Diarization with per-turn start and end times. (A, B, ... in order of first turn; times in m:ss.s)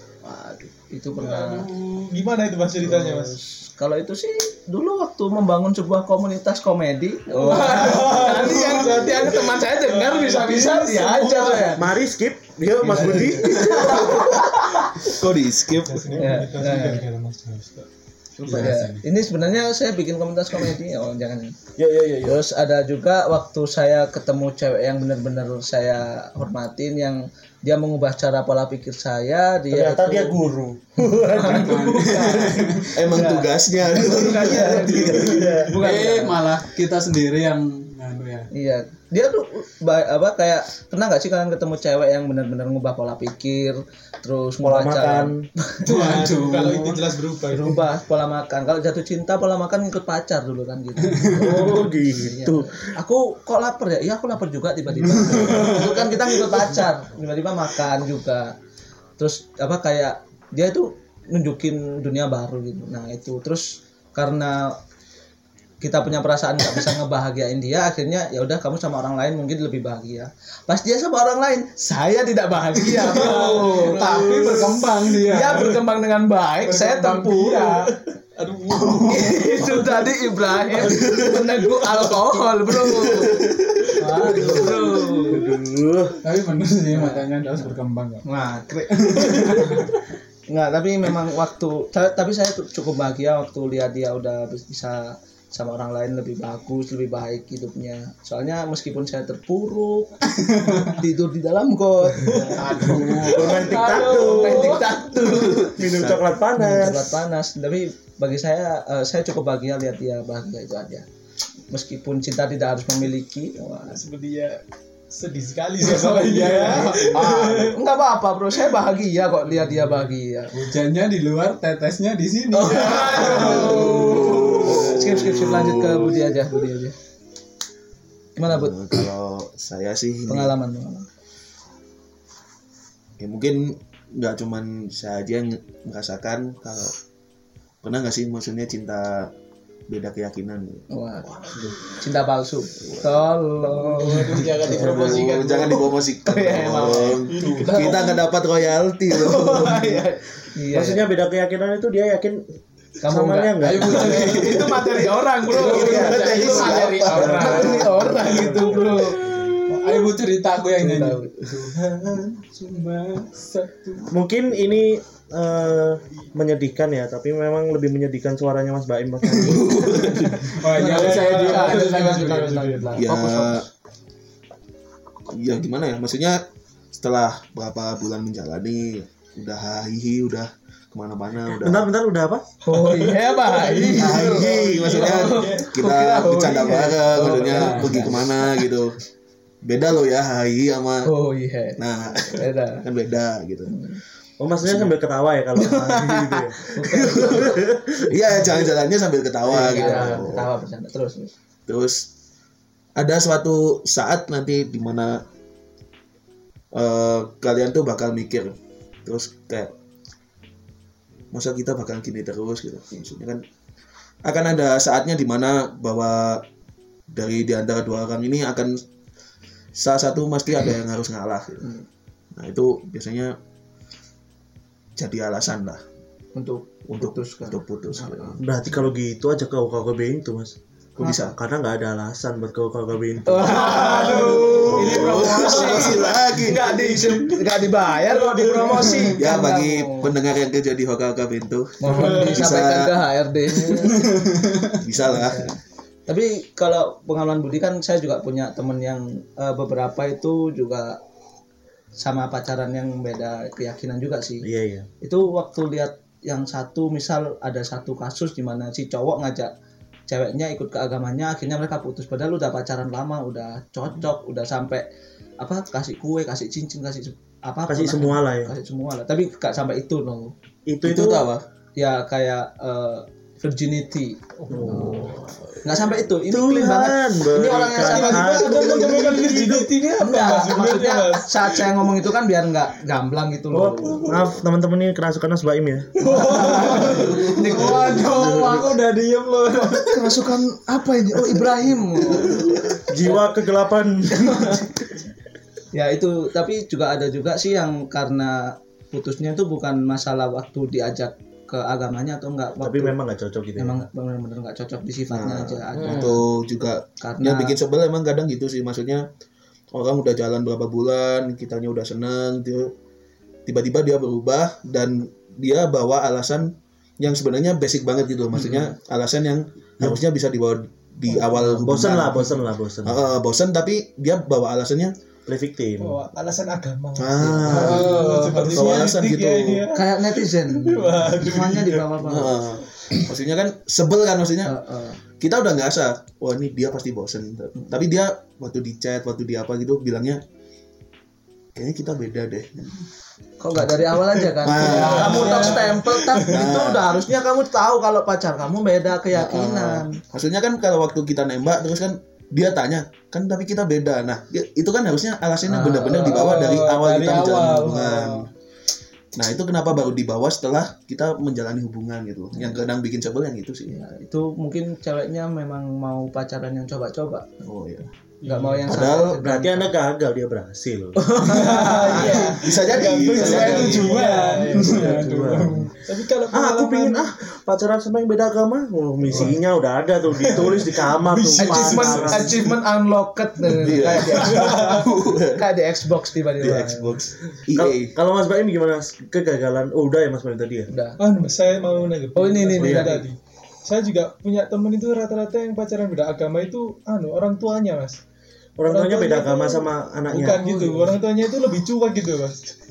0:00.2-0:01.7 A
0:01.3-0:03.4 B
0:02.8-0:11.8 A
0:07.3-0:11.8 B
0:07.5-0:08.8 C
0:11.7-0:14.2 D
0:12.8-0:15.1 A
0:13.3-0:14.8 B
0:15.0-0:16.4 E
0:15.8-0:17.9 B
0:16.2-0:17.0 A
0:18.4-0:21.6 A
0:18.4-0:19.0 C
0:21.8-0:22.3 D
0:22.2-0:30.4 A
0:29.7-0:32.3 D
0:31.1-0:36.4 A
0:31.3-0:33.2 C
0:32.9-0:35.5 E
0:34.9-0:35.8 D
0:35.8-0:38.5 C
0:38.5-0:45.8 A
0:44.6-0:45.5 D
0:45.8-0:47.9 B
0:45.8-0:47.1 C
0:47.5-0:58.5 A
0:51.1-0:51.7 C
0:51.3-0:52.9 D
0:55.2-0:56.0 C
0:59.2-1:04.8 A
1:05.8-1:17.8 A
1:12.8-1:14.9 B
1:13.0-1:15.8 C
1:16.6-1:17.9 C
1:18.4-1:20.9 B
1:18.7-1:19.7 C
1:19.1-1:23.5 A
1:20.9-1:21.6 E
1:22.7-1:24.2 E
1:24.0-1:25.3 B
1:24.0-1:25.0 C
1:24.1-1:25.4 A
1:25.3-1:26.2 D
1:26.2-1:28.2 C
1:26.9-1:27.3 A
1:28.2-1:29.9 A
1:29.0-1:29.9 C
1:30.5-1:40.1 A
1:40.4-1:41.0 C
1:40.8-1:45.8 A
1:42.2-1:43.3 B
1:42.6-1:45.0 C
1:43.3-1:44.8 D
1:45.2-1:46.3 E
1:45.4-1:47.1 D
1:46.6-1:51.1 A
1:51.7-1:54.0 A
1:53.9-1:57.8 B
1:55.8-1:57.3 C
1:56.6-2:00.5 A
1:59.6-2:04.8 C
2:02.5-2:07.0 A
2:03.3-2:03.8 B
2:03.5-2:06.4 E
2:08.4-2:08.8 A
2:08.4-2:10.5 E
2:10.3-2:11.1 A
2:13.2-2:17.0 E
2:17.8-2:19.3 E
2:19.9-2:20.9 E
2:20.9-2:21.4 A
2:22.0-2:28.2 A
2:22.8-2:23.3 E
2:23.9-2:25.9 B
2:24.4-2:30.0 E
2:24.6-2:25.2 D
2:27.3-2:28.1 B
2:27.3-2:27.7 C
2:29.1-2:31.0 A
2:30.7-2:32.4 D
2:33.0-2:40.1 A
2:33.0-2:34.4 D
2:33.6-2:38.6 C
2:35.6-2:37.9 E
2:37.1-2:39.6 D
2:39.7-2:44.1 C
2:40.8-2:41.4 A
2:44.1-2:50.0 D
2:49.4-2:50.4 E
2:49.7-2:53.6 A
2:50.0-2:53.6 C
2:50.7-2:53.0 B
2:53.0-2:53.7 E
2:55.3-2:56.4 E
2:57.0-3:01.9 E
3:01.6-3:02.4 D
3:02.6-3:08.5 A
3:02.8-3:05.7 B
3:03.9-3:09.0 E
3:07.1-3:08.3 C
3:09.6-3:11.1 E
3:11.0-3:12.8 A
3:11.8-3:13.8 E
3:13.7-3:14.0 A
3:14.4-3:18.2 D
3:14.7-3:14.9 E
3:15.6-3:17.6 A
3:17.0-3:20.5 E
3:19.5-3:20.4 D
3:19.5-3:21.3 A
3:21.7-3:22.0 E
3:23.0-3:25.2 E
3:26.7-3:29.7 E
3:31.3-3:33.4 E
3:34.2-3:36.4 E
3:37.1-3:38.8 E
3:39.8-3:41.7 E
3:42.4-3:43.4 E
3:45.0-3:45.8 E
3:46.4-3:48.4 A
3:46.9-3:48.4 E
3:48.4-3:53.8 D
3:51.0-3:51.4 E
3:51.0-3:51.3 A
3:53.3-4:00.1 A
3:53.5-3:56.2 C
3:53.7-3:54.6 B
3:53.8-3:56.7 E
3:58.6-3:58.8 B
3:58.6-3:59.1 C
3:59.0-4:03.1 E
4:01.8-4:04.1 A
4:01.9-4:02.2 C
4:01.9-4:02.5 B
4:03.7-4:04.8 C
4:04.8-4:05.5 E
4:05.0-4:11.0 A
4:12.0-4:14.5 A
4:14.4-4:14.9 D
4:15.0-4:19.5 A
4:20.1-4:24.8 A
4:25.4-4:30.3 A
4:27.7-4:28.5 D
4:30.7-4:31.3 D
4:30.8-4:31.4 E
4:31.8-4:44.2 A
4:34.4-4:35.4 B
4:34.5-4:35.0 D
4:36.3-4:39.4 D
4:37.8-4:41.9 B
4:43.5-4:45.9 D
4:46.0-4:47.2 B
4:46.0-4:48.6 A
4:46.3-4:50.2 C
4:46.9-4:47.8 E
4:48.1-4:48.6 D
4:49.7-4:53.3 A
4:52.2-4:52.6 E
4:52.8-4:54.7 D
4:54.1-4:54.7 A
4:55.7-5:03.0 A
5:02.6-5:03.9 D
5:03.6-5:06.2 A
5:05.1-5:09.1 E
5:05.8-5:06.2 D
5:07.0-5:07.5 A
5:09.7-5:12.7 E
5:13.5-5:24.9 E
5:18.4-5:18.7 A
5:21.4-5:23.1 D
5:25.3-5:26.0 D
5:25.8-5:32.0 B
5:27.0-5:29.7 E
5:27.4-5:27.8 D
5:27.5-5:29.0 C
5:29.7-5:32.4 A
5:32.0-5:34.6 E
5:34.4-5:35.0 A
5:35.2-5:40.2 E
5:41.6-5:42.9 E
5:43.4-5:50.0 A
5:43.6-5:47.2 E
5:44.5-5:45.9 C
5:44.8-5:46.5 B
5:49.1-5:58.3 E
5:55.4-5:56.7 A
5:55.9-5:58.3 C
5:59.1-6:03.8 E
6:03.7-6:07.3 A
6:07.4-6:07.9 E
6:08.2-6:08.6 B
6:08.2-6:09.7 A
6:08.6-6:09.2 E
6:08.7-6:11.0 D
6:11.0-6:12.4 A
6:11.2-6:15.1 B
6:11.4-6:15.7 C
6:12.1-6:14.2 E
6:14.6-6:15.7 D
6:15.9-6:17.1 B
6:16.3-6:22.4 D
6:20.2-6:22.4 B
6:21.3-6:27.0 A
6:23.4-6:25.5 E
6:23.9-6:24.9 B
6:26.4-6:28.0 E
6:27.5-6:30.7 D
6:30.7-6:31.0 A
6:31.0-6:38.0 B
6:32.2-6:33.0 A
6:32.6-6:33.0 D
6:38.6-6:40.4 D
6:38.7-6:42.6 B
6:40.4-6:40.8 C